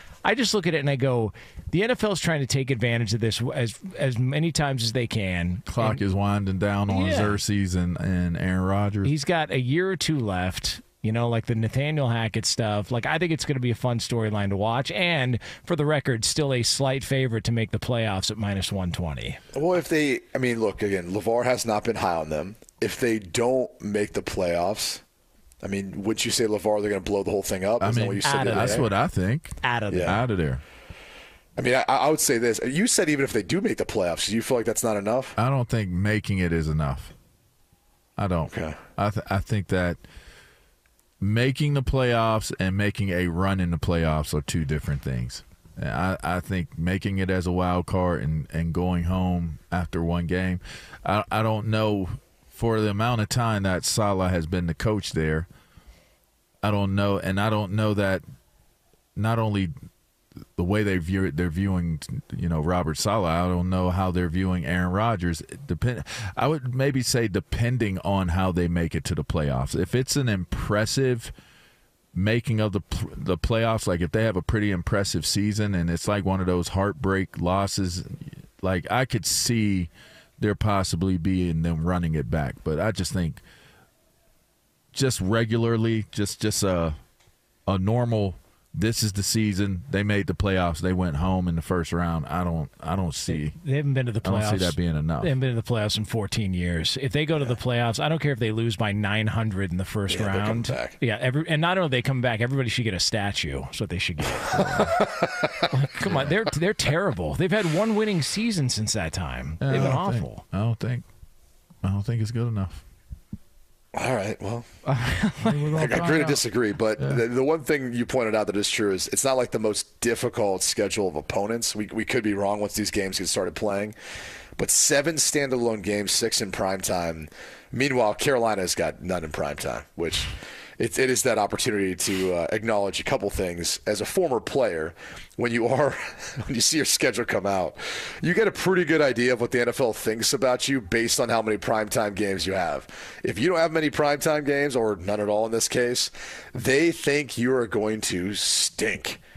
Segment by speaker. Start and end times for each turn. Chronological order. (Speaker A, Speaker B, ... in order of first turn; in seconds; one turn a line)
Speaker A: 0.2-6.0
Speaker B: 5.7-9.1
Speaker A: 6.9-7.4
Speaker A: 9.0-19.4
Speaker C: 19.5-25.0
Speaker C: 25.6-28.9
Speaker B: 27.8-30.6
Speaker A: 28.2-28.9
Speaker A: 29.6-30.2
Speaker C: 29.9-30.2
Speaker C: 31.6-35.4
Speaker B: 35.4-37.1
Speaker B: 38.2-40.0
Speaker C: 38.5-38.8
Speaker B: 41.2-55.5
Speaker B: 56.6-58.2
Speaker B: 59.2-59.7
Speaker B: 60.6-71.3
Speaker B: 72.1-83.4
Speaker B: 84.9-87.0
Speaker B: 87.7-93.6
Speaker A: 93.3-104.9
Speaker B: 94.2-95.3
Speaker C: 100.1-101.0
Speaker B: 104.5-105.0
Speaker C: 104.6-105.7
Speaker A: 105.7-110.4
Speaker B: 109.6-111.0
Speaker B: 111.8-112.8
Speaker C: 113.9-114.7
Speaker B: 114.8-116.4
Speaker A: 115.0-116.4
Speaker C: 115.7-124.0
Speaker C: 124.6-149.2